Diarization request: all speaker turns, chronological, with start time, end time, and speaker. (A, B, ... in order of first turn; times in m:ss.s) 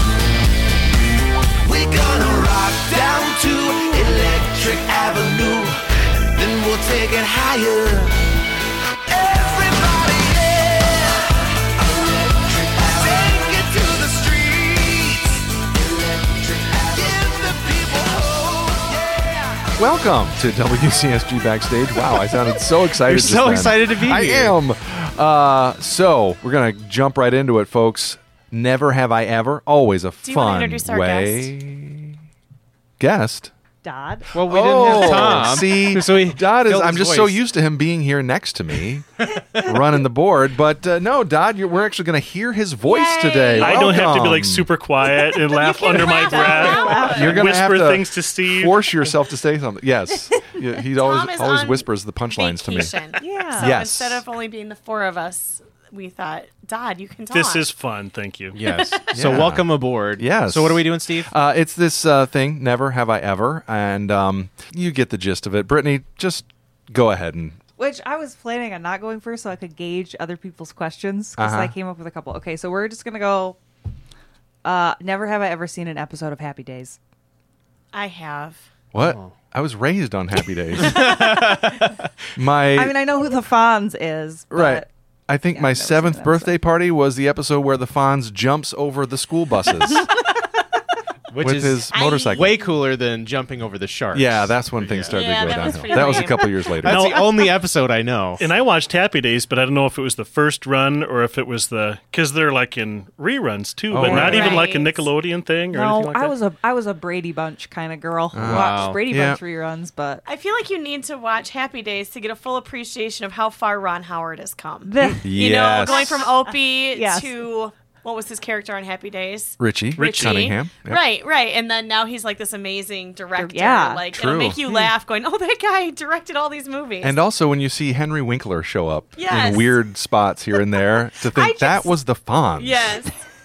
0:01.6-0:08.2 A
0:09.0-0:19.7 A
0:19.8-0:32.2 B
0:22.9-0:24.6 C
0:30.2-0:31.5 D
0:33.0-0:33.5 B
0:33.8-0:34.3 E
0:34.3-0:37.4 C
0:34.4-0:44.7 B
0:42.9-0:44.2 D
0:43.6-0:48.9 F
0:45.3-0:47.4 D
0:46.3-0:47.4 E
0:47.1-0:52.9 B
0:51.0-0:57.6 D
0:53.2-0:53.7 E
0:53.6-0:54.2 B
0:57.3-0:58.6 F
0:58.5-1:01.3 C
0:58.6-0:59.3 D
0:59.1-1:07.6 B
1:07.8-1:13.6 E
1:11.4-1:11.7 B
1:14.6-1:17.0 E
1:17.9-1:18.6 D
1:18.9-1:21.5 B
1:19.0-1:19.3 C
1:20.8-1:22.1 C
1:22.4-1:23.0 B
1:22.7-1:24.9 E
1:24.5-1:30.1 B
1:25.5-1:26.5 E
1:31.3-1:36.0 C
1:31.4-1:32.6 B
1:31.9-1:32.7 D
1:34.1-1:37.1 B
1:35.1-1:36.7 D
1:36.8-1:38.4 C
1:36.8-1:37.3 F
1:38.4-1:46.3 F
1:43.9-1:44.6 B
1:44.0-1:44.7 E
1:44.0-1:45.1 D
1:45.7-1:50.2 E
1:48.3-1:49.4 B
1:48.4-1:49.0 C
1:50.2-2:07.2 D
1:54.8-1:55.3 E
1:55.2-1:56.3 B
1:56.9-1:57.3 E
1:59.6-2:01.0 B
2:00.0-2:00.5 F
2:03.4-2:04.0 E
2:04.1-2:04.6 B
2:07.0-2:13.0 B
2:09.2-2:09.8 D
2:10.8-2:12.0 D
2:12.6-2:13.1 D